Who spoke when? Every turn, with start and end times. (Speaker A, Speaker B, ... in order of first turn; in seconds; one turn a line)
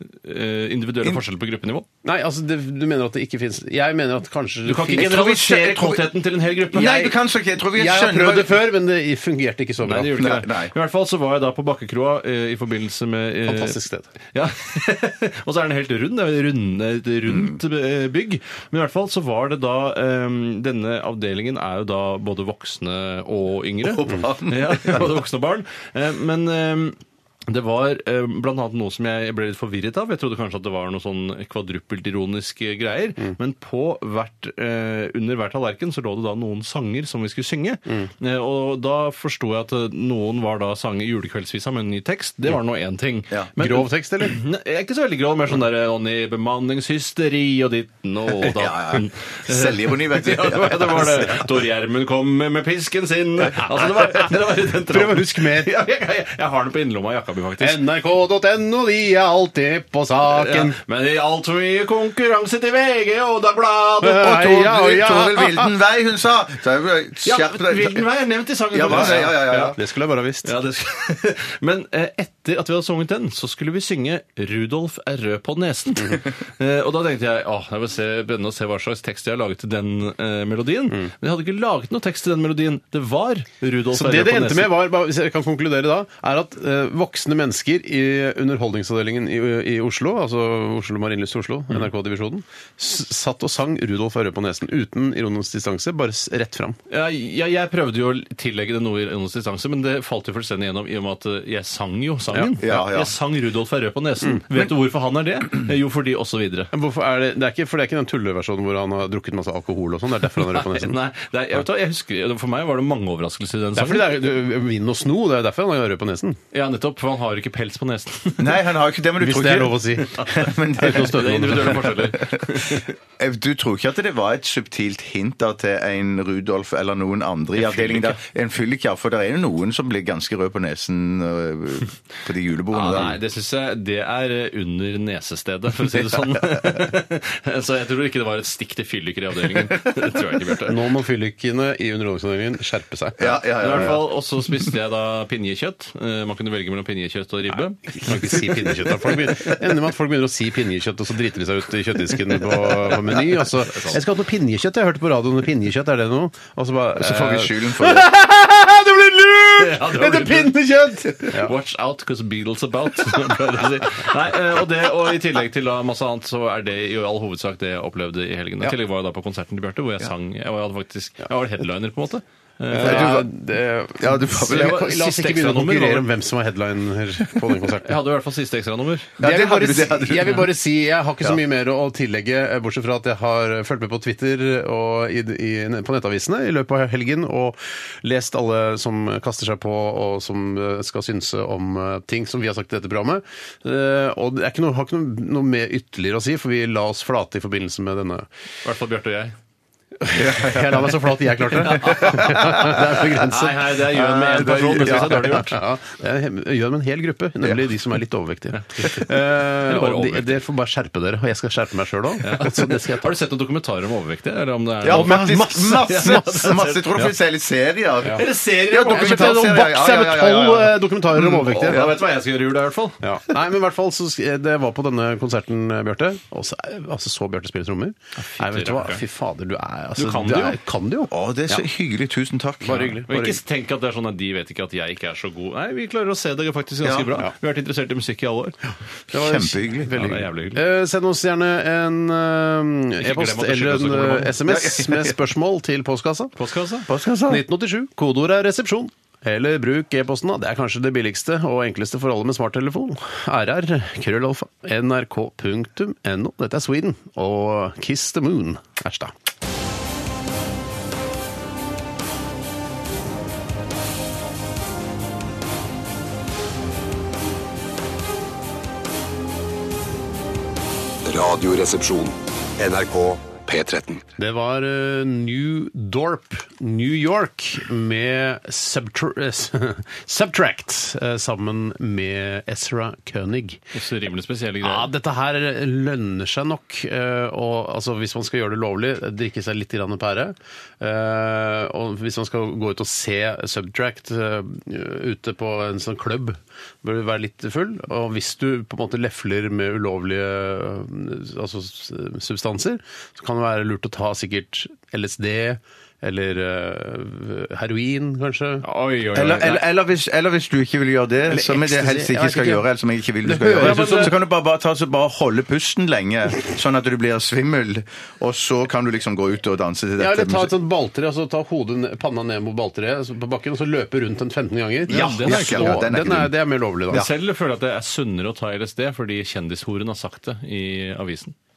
Speaker A: 0.2-1.9
Speaker B: 2.0-5.2
Speaker A: 4.7-7.2
Speaker C: 4.9-6.1
Speaker C: 6.7-8.6
Speaker B: 7.7-10.2
Speaker A: 9.8-13.8
Speaker C: 10.1-10.7
Speaker B: 13.4-14.1
Speaker A: 14.3-57.8
Speaker C: 17.3-17.6
Speaker C: 23.8-25.1
Speaker B: 43.6-44.4
Speaker C: 48.4-51.5
Speaker B: 54.2-55.7
Speaker B: 57.6-60.8
Speaker A: 60.3-64.7
Speaker B: 64.0-65.7
Speaker C: 64.2-68.0
Speaker A: 67.2-69.8
Speaker C: 68.7-69.8
Speaker B: 68.9-70.5
Speaker A: 70.4-84.8
Speaker B: 83.9-96.8
Speaker A: 96.9-106.7
Speaker C: 102.6-103.1
Speaker B: 106.7-110.9
Speaker A: 110.5-114.2
Speaker B: 113.7-116.4
Speaker A: 116.5-118.6
Speaker C: 118.4-133.2
Speaker B: 119.2-120.2
Speaker A: 120.1-122.8
Speaker B: 120.7-121.9
Speaker A: 127.6-128.2
Speaker A: 132.7-140.8
Speaker B: 140.6-143.9
Speaker C: 143.2-144.1
Speaker A: 143.5-148.1
Speaker B: 147.9-161.5
Speaker A: 152.8-154.0
Speaker C: 156.9-158.1
Speaker A: 159.6-173.2
Speaker B: 172.7-178.0
Speaker C: 172.8-173.3
Speaker C: 174.0-174.8
Speaker A: 174.5-176.1
Speaker A: 177.8-179.2
Speaker C: 179.2-180.5
Speaker B: 179.2-198.2
Speaker A: 198.6-199.3
Speaker B: 200.0-213.1
Speaker C: 200.1-200.9
Speaker C: 201.6-202.8
Speaker A: 201.6-205.6
Speaker C: 204.2-205.2
Speaker A: 208.8-210.4
Speaker A: 212.2-217.1
Speaker C: 214.8-222.0
Speaker B: 214.9-216.4
Speaker A: 218.2-219.5
Speaker B: 218.8-221.8
Speaker A: 221.2-223.0
Speaker B: 223.0-231.6
Speaker A: 228.3-229.0
Speaker A: 230.0-230.6
Speaker C: 231.1-233.0
Speaker B: 232.6-233.4
Speaker A: 233.1-238.6
Speaker C: 236.8-237.1
Speaker B: 239.1-246.3
Speaker C: 239.1-239.9
Speaker A: 239.9-240.6
Speaker A: 243.0-244.3
Speaker C: 244.4-245.2
Speaker A: 246.4-246.9
Speaker C: 246.9-247.4
Speaker B: 247.3-259.1
Speaker D: 271.0-274.0
Speaker B: 274.2-283.7
Speaker A: 283.7-284.9
Speaker B: 284.6-308.6
Speaker A: 308.6-309.6
Speaker C: 309.1-320.5
Speaker B: 311.3-312.7
Speaker B: 313.2-314.1
Speaker A: 313.6-314.1
Speaker B: 320.0-327.1
Speaker A: 324.9-325.8
Speaker C: 324.9-326.3
Speaker A: 326.9-331.3